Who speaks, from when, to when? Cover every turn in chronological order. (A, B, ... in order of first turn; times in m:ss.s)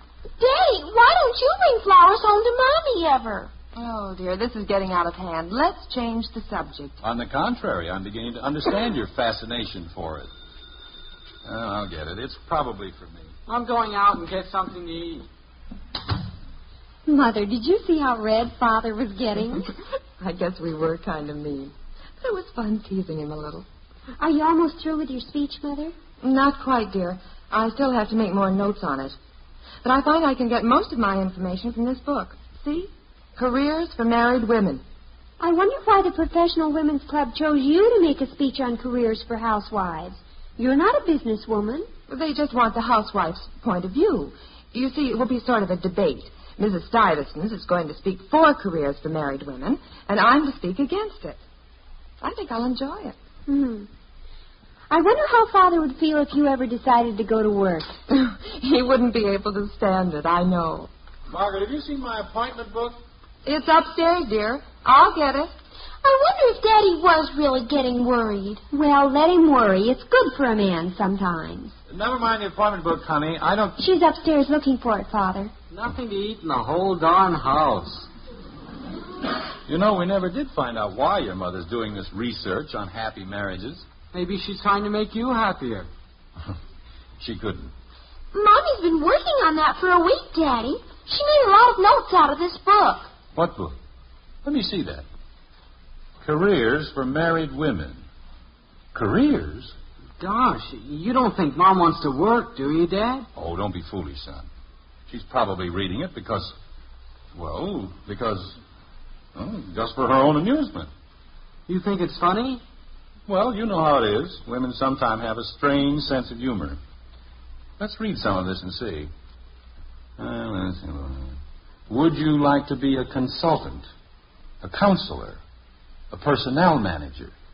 0:00.4-0:03.5 A
0:03.8-0:07.0 B
0:07.0-0:10.3 C
0:11.4-0:13.3 C
0:13.5-0:15.2 D
0:17.0-0:19.7 E
0:20.2-0:23.6 B
0:24.2-0:25.9 E
0:26.2-0:29.1 B
0:29.8-0:34.8 B
0:35.4-0:41.9 E
0:42.1-0:51.4 B
0:52.2-0:53.1 B
0:53.5-0:53.9 E
0:54.9-0:58.0 E
0:58.1-1:00.9 B
1:01.3-1:02.9 C
1:03.4-1:05.5 B
1:06.0-1:08.6 A
1:08.7-1:11.7 E
1:11.9-1:13.8 C
1:13.8-1:15.5 E
1:15.7-1:18.1 D
1:19.7-1:23.8 C
1:24.1-1:25.9 D
1:27.2-1:27.7 C
1:28.3-1:33.1 A
1:33.3-1:33.8 C
1:34.4-1:35.0 C
1:36.2-1:38.0 C
1:38.9-1:39.7 C
1:40.2-1:43.3 D
1:43.4-1:44.5 C
1:45.1-1:46.5 C
1:47.3-1:48.6 C
1:49.3-1:50.9 C
1:51.7-1:52.6 D
1:53.3-1:56.8 C
1:57.8-1:59.1 C
2:00.2-2:01.4 C
2:01.9-2:03.8 C
2:04.6-2:05.4 C
2:06.1-2:07.3 C